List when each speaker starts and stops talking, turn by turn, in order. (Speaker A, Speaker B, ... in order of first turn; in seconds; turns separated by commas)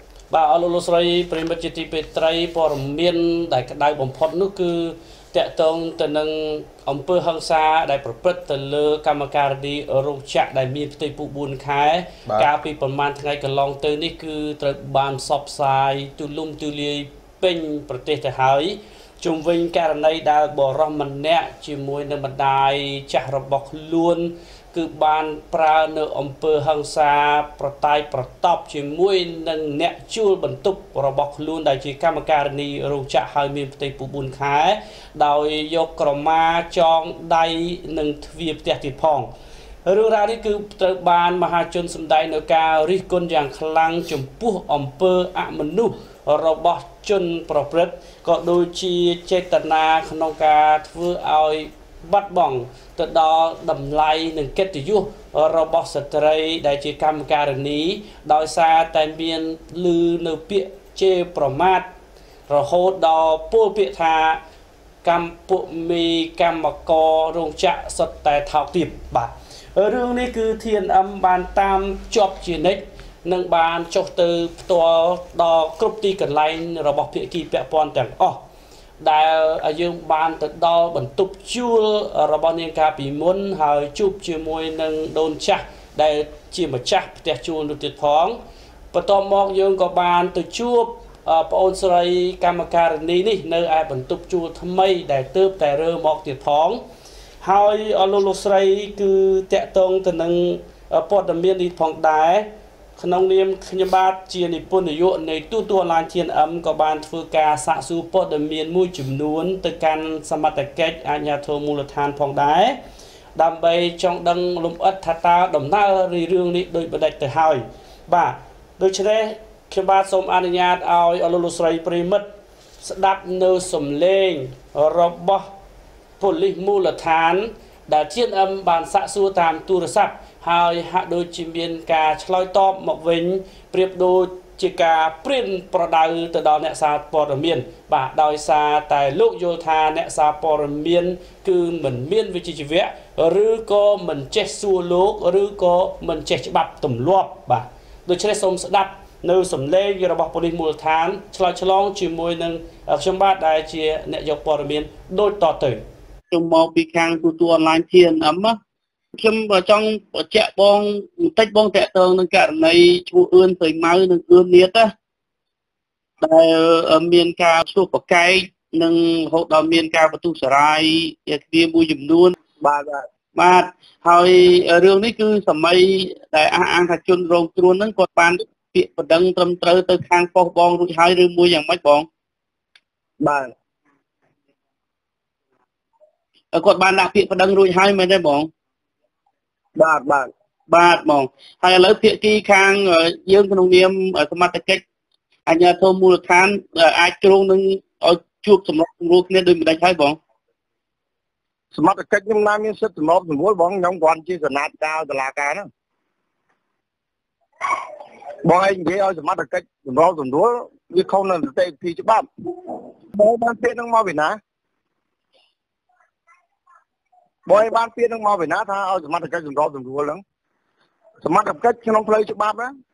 Speaker A: 0.3-39.3, Speaker A: 39.9-61.9, Speaker A: 62.5-64.4, Speaker A: 65.0-78.4, Speaker A: 79.0-88.4, Speaker A: 88.9-96.8, Speaker A: 97.4-112.8, Speaker A: 113.4-122.3, Speaker A: 122.8-125.5, Speaker A: 126.2-155.8, Speaker B: 156.3-158.6, Speaker B: 159.2-164.9, Speaker B: 166.2-172.3, Speaker C: 172.6-173.1, Speaker B: 173.4-182.1, Speaker C: 183.2-183.5, Speaker B: 186.5-188.5, Speaker C: 189.8-190.3, Speaker B: 190.7-194.8, Speaker B: 195.5-200.2, Speaker C: 201.7-205.7, Speaker C: 208.4-212.3, Speaker C: 213.1-214.4, Speaker C: 217.5-220.2, Speaker C: 221.2-222.7